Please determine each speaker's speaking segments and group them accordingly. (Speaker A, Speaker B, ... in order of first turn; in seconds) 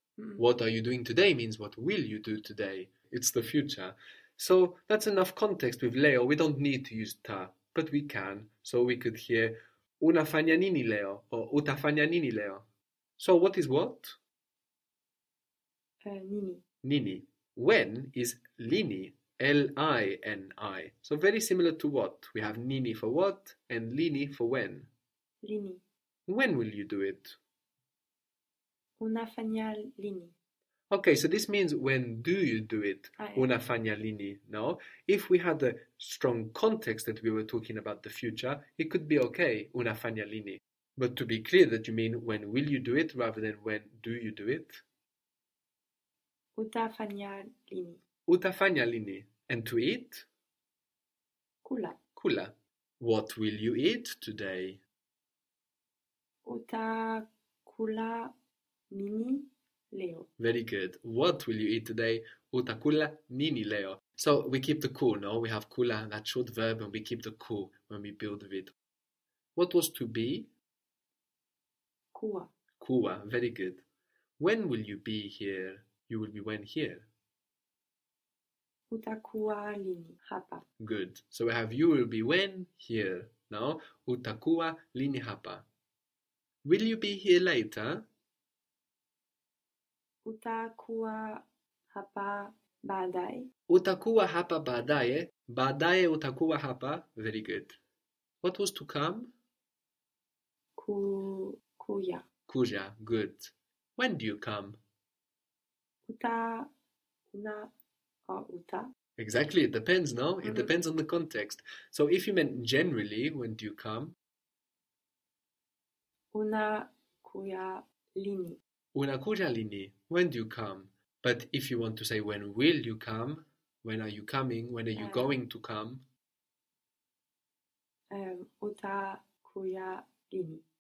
Speaker A: 0.4-12.6, 13.2-14.2, 16.8-24.9, 26.3-27.4, 30.9-44.8, 48.3-50.3, 52.1-54.8, 60.4-68.7, 69.5-70.5, 72.8-73.8, 74.4-77.1, 80.8-85.7, 86.6-88.0, 93.7-97.8, 98.4-99.3, 102.5-104.8, 109.2-114.2, 118.9-126.0
Speaker B: 16.0-16.6, 25.4-25.8, 29.0-30.3, 33.2-33.5, 46.5-48.0, 51.6-52.0, 56.4-58.3, 58.9-60.3, 72.1-72.5, 78.9-80.6, 90.2-93.5, 100.8-102.2, 106.1-106.7, 107.3-107.7, 108.3-108.9, 110.4-110.7, 116.3-118.6, 125.0-125.4, 128.1-130.6